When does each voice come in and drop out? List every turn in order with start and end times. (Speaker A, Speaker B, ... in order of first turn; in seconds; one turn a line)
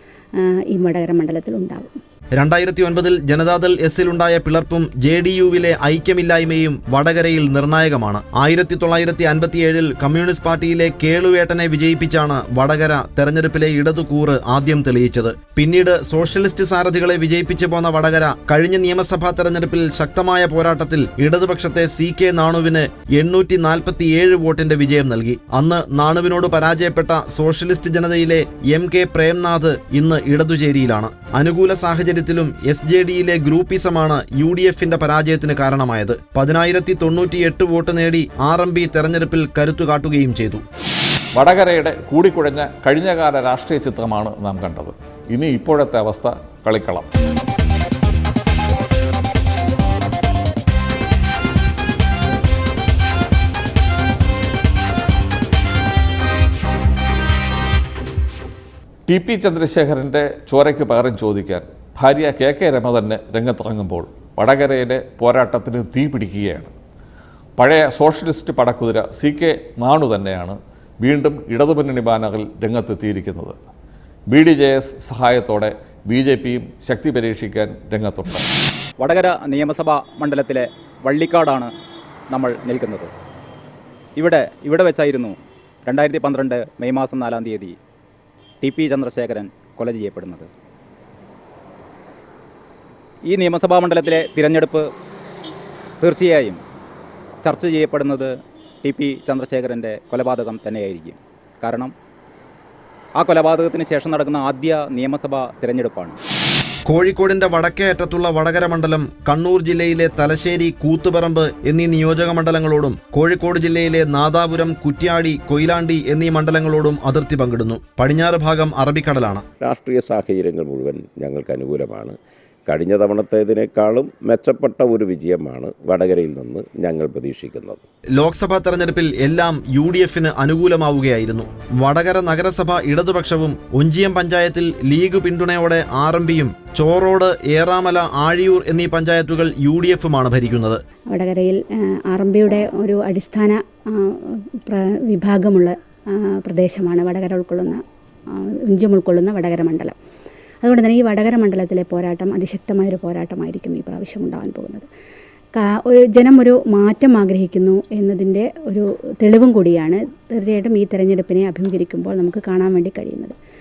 Speaker A: 0.3-1.9
Speaker B: 2.4-40.6
Speaker C: 41.3-47.1
Speaker C: 59.1-66.7
Speaker C: 67.6-73.6
Speaker C: 74.3-78.5
Speaker D: 79.0-81.7
Speaker D: 82.3-83.1
Speaker D: 84.2-87.8
Speaker D: 88.6-90.5
Speaker D: 93.3-94.8
Speaker D: 96.0-96.6
Speaker D: 97.4-98.3
Speaker D: 98.8-101.9
Speaker D: 103.2-106.1
Speaker B: 106.9-119.4
Speaker E: 119.6-127.8
Speaker B: 128.2-140.8
Speaker A: 141.1-149.9
Speaker A: 150.6-154.9
Speaker A: 155.5-163.3